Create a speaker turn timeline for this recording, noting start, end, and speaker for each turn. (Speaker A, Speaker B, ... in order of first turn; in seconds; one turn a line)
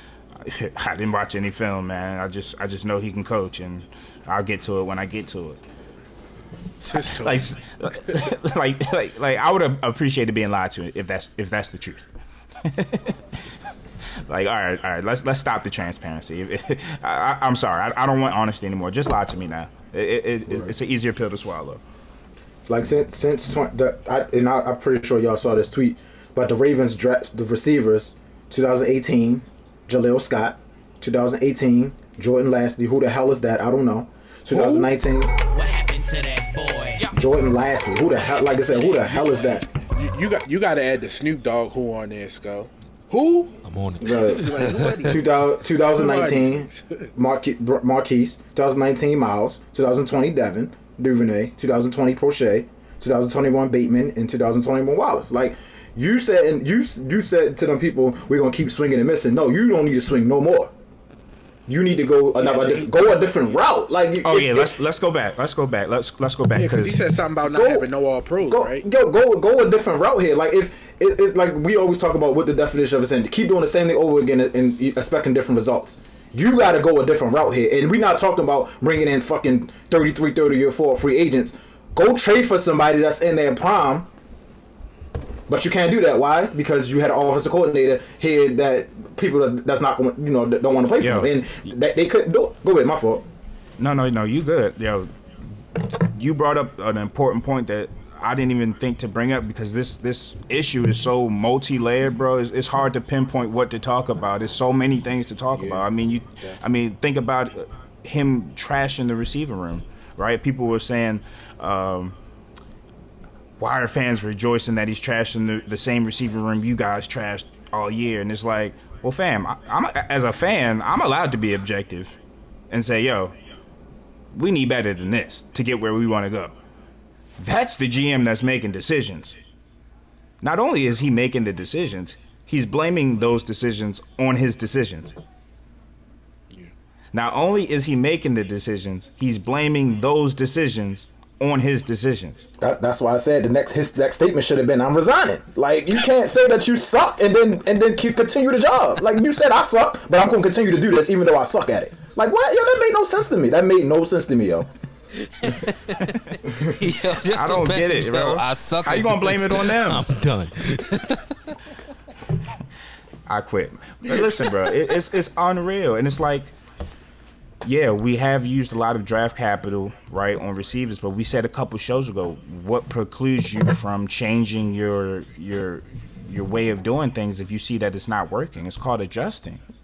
Speaker A: 0.4-5.6
Speaker B: 6.8-8.2
Speaker A: 6.9-12.1
Speaker A: 12.6-13.4
Speaker A: 14.2-21.8
Speaker C: 20.5-20.7
Speaker C: 22.6-35.3
Speaker B: 34.5-34.9
Speaker D: 35.5-37.1
Speaker C: 37.1-39.7
Speaker D: 38.5-39.3
Speaker B: 39.2-43.5
Speaker E: 43.6-45.0
Speaker C: 44.0-60.7
Speaker B: 44.1-47.1
Speaker C: 61.7-64.7
Speaker B: 62.4-62.9
Speaker A: 64.2-67.0
Speaker B: 66.5-68.8
Speaker C: 67.4-67.9
Speaker C: 68.4-84.1
Speaker C: 85.5-93.2
Speaker A: 91.0-91.3
Speaker A: 93.8-95.1
Speaker A: 95.8-112.2
Speaker B: 105.5-106.6
Speaker A: 113.6-122.2
Speaker A: 122.7-123.3
Speaker A: 124.3-126.5
Speaker A: 127.4-129.4
Speaker A: 130.4-135.2
Speaker A: 137.1-142.5
Speaker C: 142.6-154.7
Speaker E: 155.3-161.6
Speaker A: 157.2-160.0
Speaker A: 163.3-166.5
Speaker B: 164.1-164.5
Speaker A: 167.6-179.6